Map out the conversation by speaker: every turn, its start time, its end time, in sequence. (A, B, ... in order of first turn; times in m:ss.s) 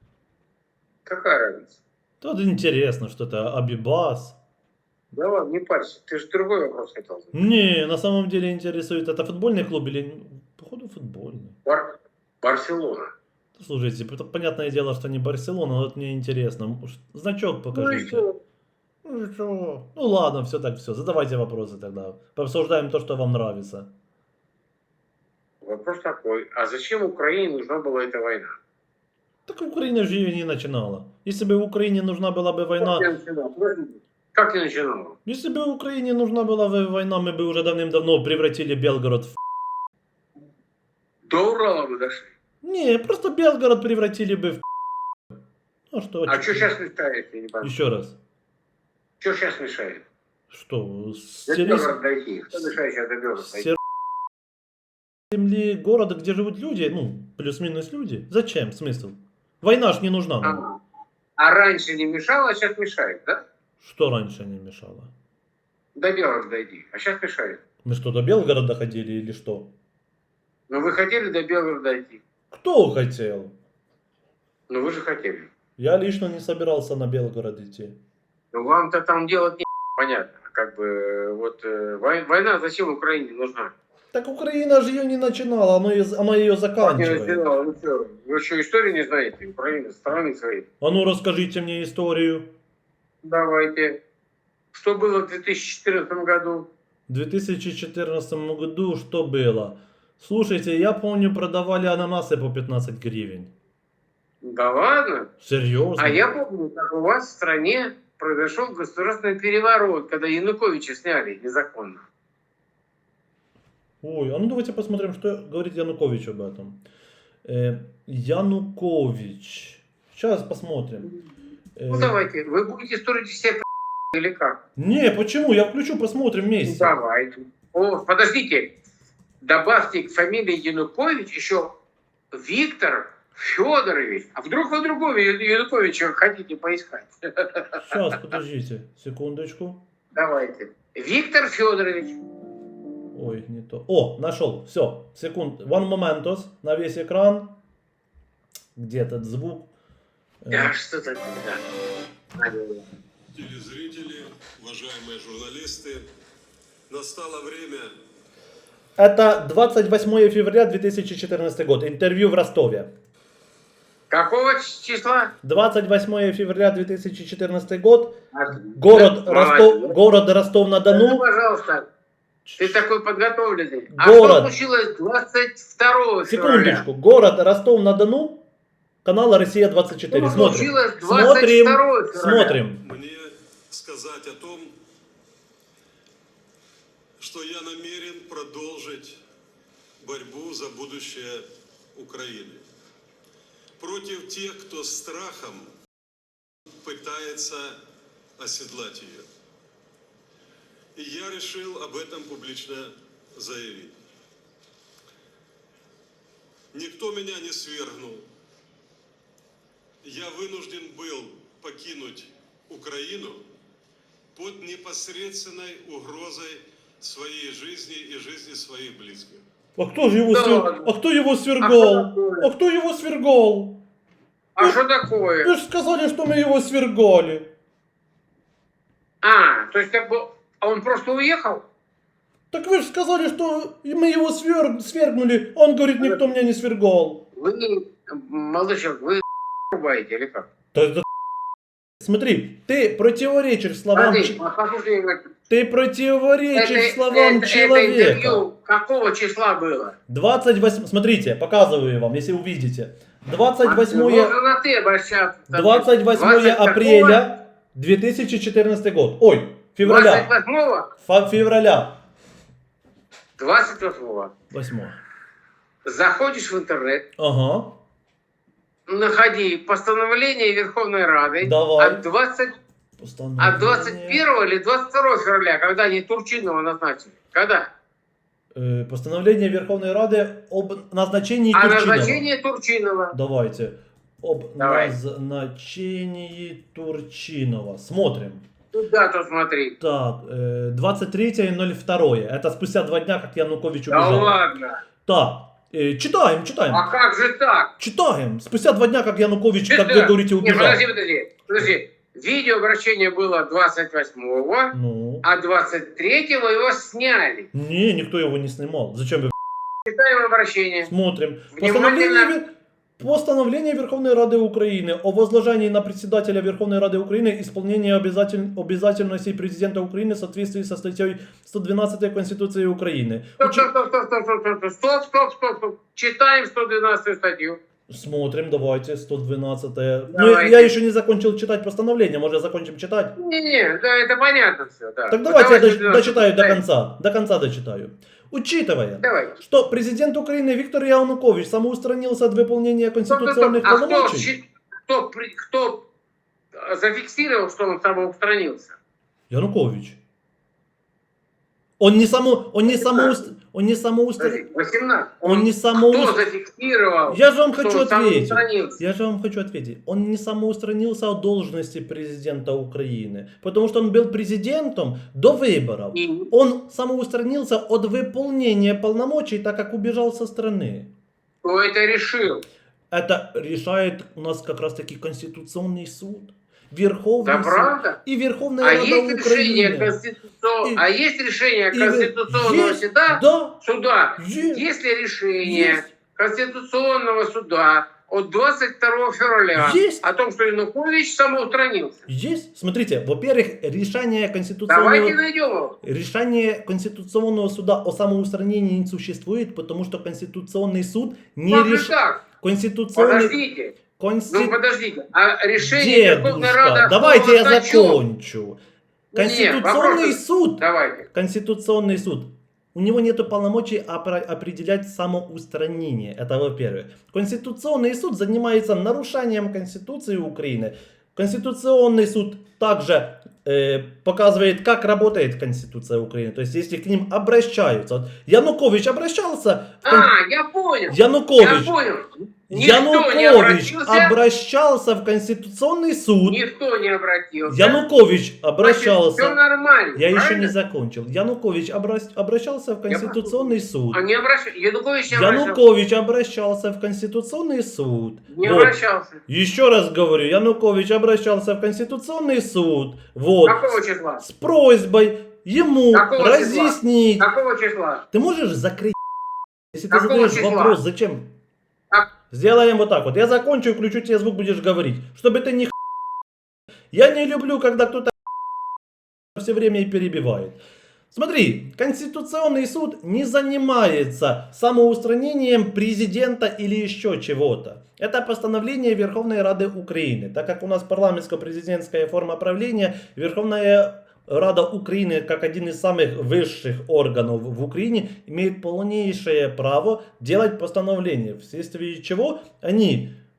0:01.0-0:01.8 A
0:02.2-0:04.4 B
0:05.1-0:07.4 A
0:07.3-0:11.6 B
0:11.6-0:13.1 A
0:13.6-0:18.2 B
0:17.7-0:18.4 A
0:19.0-0:23.9 B
0:25.6-0:28.6 A
0:29.5-0:33.1 B
0:32.8-0:35.2 A
0:35.2-0:39.4 B
0:41.2-0:42.3 A
0:42.6-0:44.6 B
0:45.9-0:46.7 B
0:46.3-0:47.8 A
0:47.6-0:48.2 B
0:49.2-0:50.0 A
0:50.5-0:52.0 B
0:51.5-0:53.7 A
0:53.4-0:53.8 B
0:55.3-1:00.6 B
1:00.4-1:00.8 A
1:01.4-1:03.4 A
1:03.8-1:05.1 B
1:06.0-1:07.6 A
1:07.8-1:09.7 B
1:10.7-1:12.2 A
1:12.5-1:13.5 B
1:14.7-1:15.5 A
1:15.8-1:18.0 B
1:18.5-1:23.7 A
1:24.1-1:27.4 B
1:26.8-1:30.6 A
1:30.8-1:32.5 B
1:33.2-1:34.0 A
1:34.7-1:36.7 A
1:37.1-1:43.5 B
1:44.4-1:45.3 A
1:45.4-1:46.2 B
1:46.0-1:52.0 A
1:54.0-1:56.8 B
1:57.4-2:01.1 B
2:01.8-2:02.2 B
2:01.9-2:04.6 A
2:04.8-2:06.9 B
2:06.6-2:08.7 A
2:09.4-2:11.8 A
2:12.3-2:18.0 A
2:17.8-2:19.8 B
2:20.1-2:22.2 A
2:23.1-2:27.6 B
2:28.8-2:29.7 B
2:30.4-2:30.7 B
2:30.5-2:31.6 A
2:32.4-2:32.8 A
2:33.3-2:36.0 C
2:36.9-2:37.9 C
2:39.0-2:42.9 B
2:44.1-2:45.3 A
2:45.4-2:48.2 B
2:48.3-2:50.0 A
2:48.7-2:51.2 B
2:50.9-2:51.9 A
2:52.4-2:52.8 B
2:52.6-2:56.8 A
2:53.9-2:54.5 B
2:56.2-2:58.4 B
2:59.0-3:02.8 B
3:00.1-3:02.6 A
3:02.8-3:04.7 C
3:07.2-3:09.2 C
3:10.0-3:12.6 C
3:13.8-3:15.7 C
3:16.8-3:17.8 C
3:18.4-3:19.3 C
3:20.9-3:24.0 C
3:26.7-3:28.2 C
3:30.0-3:33.4 C
3:34.3-3:39.4 C
3:39.8-3:43.8 B
3:40.3-3:40.9 A
3:41.6-3:42.5 A
3:44.6-3:45.5 A
3:45.4-3:47.5 B
3:49.2-3:51.6 A
3:52.5-3:57.2 B
3:56.0-3:56.2 A
3:57.4-4:00.5 A
4:00.7-4:01.0 B
4:02.0-4:04.4 B
4:03.9-4:05.3 A
4:05.5-4:08.4 B
4:06.5-4:09.9 A
4:10.1-4:14.3 B
4:13.6-4:17.2 A
4:15.5-4:20.3 B
4:19.8-4:20.9 A
4:21.0-4:22.0 B
4:23.4-4:24.3 A
4:24.5-4:25.0 B
4:25.8-4:27.0 A
4:27.2-4:27.8 B
4:28.9-4:32.5 A
4:31.4-4:32.0 B
4:33.0-4:34.2 B
4:33.4-4:37.7 A
4:38.5-4:42.2 B
4:41.5-4:43.1 A
4:43.1-4:48.4 B
4:44.6-4:44.9 A
4:48.7-4:49.8 A
4:49.8-4:54.4 B
4:53.9-4:54.8 A
4:55.0-4:56.9 B
4:56.7-4:57.7 A
4:57.8-5:00.8 B
4:59.7-5:07.5 A
5:04.7-5:05.2 B
5:07.5-5:09.3 B
5:09.9-5:10.9 A
5:10.8-5:23.7 B
5:11.5-5:12.3 A
5:23.4-5:27.6 A
5:27.9-5:33.1 B
5:30.1-5:30.7 A
5:33.2-5:36.6 A
5:35.1-5:44.3 B
5:39.0-5:39.4 A
5:43.1-5:45.8 A
5:46.5-5:48.8 A
5:49.3-5:50.0 B
5:51.8-5:54.4 B
5:52.7-5:53.1 A
5:54.2-5:58.8 A
5:55.2-5:56.2 B
5:57.1-6:10.9 B
6:05.9-6:06.3 A
6:11.4-6:12.4 A
6:12.9-6:20.0 B
6:17.2-6:18.0 A
6:18.6-6:32.0 A
6:21.7-6:23.6 B
6:24.2-6:24.6 B
6:25.4-6:25.8 B
6:29.5-6:30.0 B
6:32.1-6:35.2 B
6:34.7-6:35.8 A
6:35.8-6:43.4 B
6:41.5-6:42.2 A
6:42.9-6:43.7 A
6:44.0-6:44.6 B
6:44.3-6:48.0 A
6:45.6-6:48.6 B
6:49.1-6:51.1 A
6:49.1-7:10.1 B
7:09.8-7:14.1 A
7:10.9-7:11.7 B
7:12.5-7:16.4 B
7:16.2-7:17.8 A
7:17.4-7:19.4 B
7:18.6-7:20.5 A
7:19.9-7:24.0 B
7:22.9-7:25.6 A
7:25.1-7:28.8 B
7:28.3-7:29.2 A
7:29.3-7:33.7 B
7:33.4-7:34.2 A
7:34.2-7:37.3 B
7:35.9-7:38.0 A
7:38.1-7:39.0 B
7:39.7-7:41.3 B
7:39.9-7:40.8 A
7:42.3-7:45.7 B
7:46.9-7:48.1 B
7:49.4-7:50.6 B
7:51.1-8:13.2 B